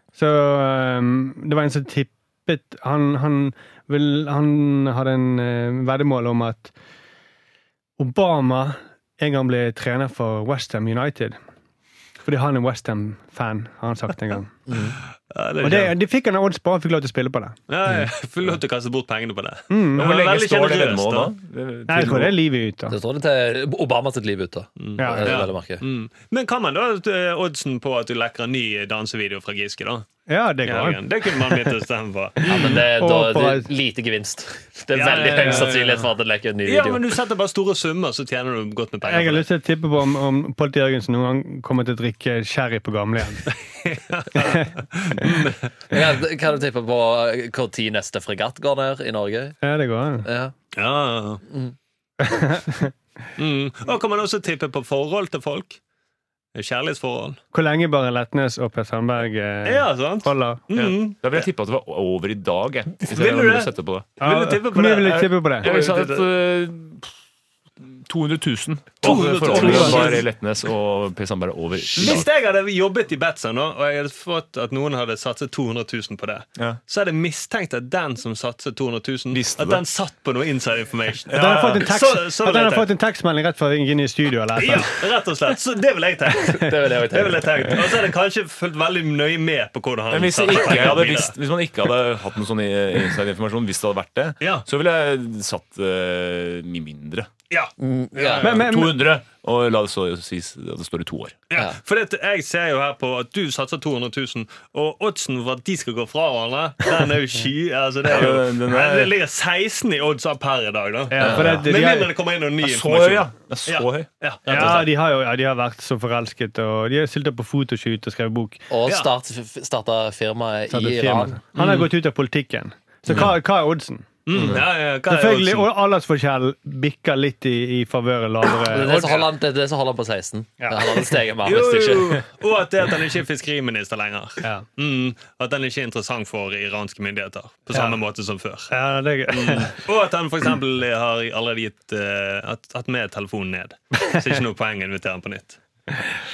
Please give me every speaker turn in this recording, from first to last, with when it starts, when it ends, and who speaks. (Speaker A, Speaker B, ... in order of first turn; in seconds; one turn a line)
Speaker A: 0.2-6.7
Speaker A: 8.0-11.4
Speaker A: 12.2-14.5
Speaker B: 14.7-15.0
Speaker C: 15.3-15.9
Speaker A: 15.6-17.6
Speaker C: 17.7-21.3
Speaker A: 19.7-20.0
Speaker D: 20.0-22.4
Speaker A: 21.9-22.9
Speaker B: 22.9-25.8
Speaker C: 24.8-30.1
Speaker A: 25.0-25.4
Speaker A: 30.3-31.7
Speaker C: 30.6-32.9
Speaker A: 32.5-33.7
Speaker B: 32.5-37.0
Speaker C: 34.9-36.1
Speaker C: 36.6-39.5
Speaker A: 39.0-43.5
Speaker C: 43.8-45.6
Speaker A: 44.4-44.7
Speaker B: 45.9-49.6
Speaker A: 49.6-50.3
Speaker B: 50.2-50.5
Speaker C: 50.7-51.4
Speaker B: 51.5-51.7
Speaker A: 52.2-52.9
Speaker C: 53.4-55.8
Speaker C: 56.5-57.4
Speaker A: 57.5-60.6
Speaker C: 59.6-61.5
Speaker D: 60.7-64.1
Speaker C: 63.1-66.3
Speaker A: 64.2-65.7
Speaker D: 65.0-67.1
Speaker D: 67.8-72.3
Speaker C: 69.0-70.3
Speaker A: 69.0-70.1
Speaker C: 71.8-82.9
Speaker D: 79.3-79.8
Speaker D: 81.3-81.8
Speaker A: 81.3-84.9
Speaker C: 84.6-91.4
Speaker B: 86.5-87.8
Speaker D: 90.1-97.3
Speaker C: 94.4-94.7
Speaker C: 97.5-98.5
Speaker B: 97.8-98.5
Speaker D: 98.4-101.4
Speaker A: 98.4-99.0
Speaker C: 101.5-114.9
Speaker D: 108.1-109.1
Speaker A: 111.1-112.1
Speaker B: 111.2-111.5
Speaker D: 111.2-111.7
Speaker D: 112.6-114.8
Speaker A: 114.5-118.6
Speaker B: 118.7-121.4
Speaker A: 120.7-124.1
Speaker C: 121.5-121.9
Speaker C: 124.3-125.7
Speaker D: 124.3-124.6
Speaker A: 125.1-129.2
Speaker B: 128.5-132.2
Speaker A: 130.6-130.9
Speaker C: 131.4-138.7
Speaker A: 138.7-139.8
Speaker C: 139.3-145.6